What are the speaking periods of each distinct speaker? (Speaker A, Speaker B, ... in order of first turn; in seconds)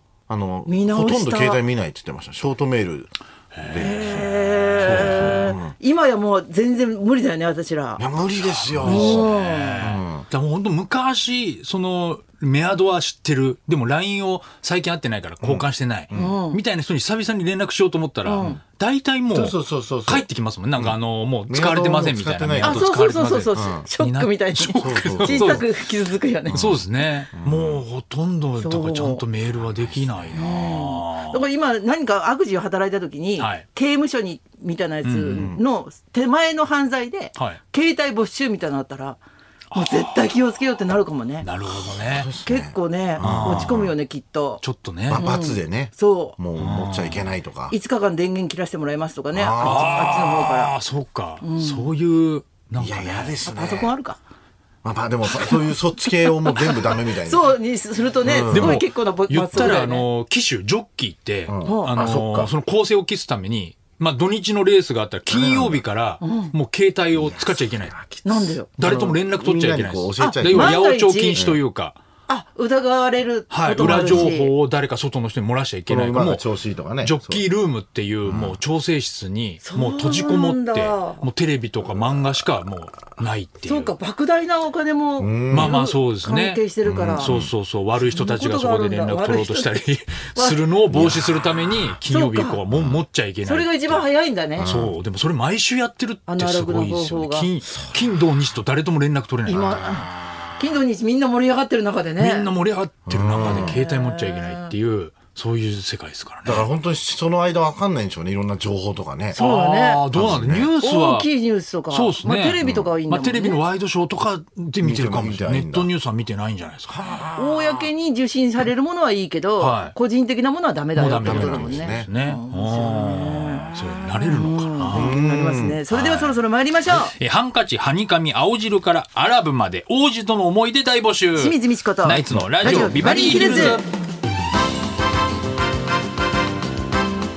Speaker A: 0.3-5.8, 8.0-10.3, 15.4-16.4, 19.3-20.3, 21.5-22.9, 23.6-23.9, 24.7-25.7, 26.5-26.8, 27.3-27.8, 29.6-30.4, 41.7-43.9, 45.1-47.8, 49.3-50.0, 52.8-53.9, 54.8-57.5, 58.2-58.9, 61.5-62.5, 65.3-65.8, 67.1-70.8, 71.3-71.6, 73.8-74.3, 75.9-77.4, 78.2-78.6, 81.8-82.3, 85.2-85.8, 86.8-87.5, 90.9-91.5, 92.7-93.0, 94.6-94.9, 103.1-103.8, 106.5-109.4, 110.1-110.7, 112.6-112.9, 114.8-115.9, 116.9-117.9, 121.1-122.1, 124.9-125.8
Speaker B: 0.7-1.6, 3.8-8.0, 8.8-9.9, 16.1-16.6, 18.2-18.6, 22.6-26.8, 28.6-29.2, 30.3-39.2, 39.7-41.5, 42.4-44.6, 45.1-46.4, 47.7-50.8, 51.4-51.9, 53.4-54.2, 56.4-60.1, 61.6-62.1, 66.2-66.5, 68.2-68.7, 70.2-71.4, 72.3-74.5, 79.6-81.2, 83.6-87.3, 88.0-90.7, 92.1-92.6, 93.4-94.7, 96.3-97.5, 99.5-102.5, 103.5-104.7, 109.3-110.0, 110.8-113.6, 117.3-127.1, 131.4-133.8
Speaker C: 3.5-5.5, 8.4-25.7, 26.5-31.5, 33.4-33.7, 35.0-35.6, 39.7-40.3, 41.4-42.3, 43.2-43.9, 44.6-45.3, 46.6-47.3, 49.6-53.4, 58.5-68.0, 68.8-72.0, 73.5-76.5, 77.0-83.9, 85.5-94.1, 94.6-100.2, 102.2-106.7, 109.3-111.3, 111.9-117.3, 119.6-120.0, 121.0-125.2, 125.9-133.9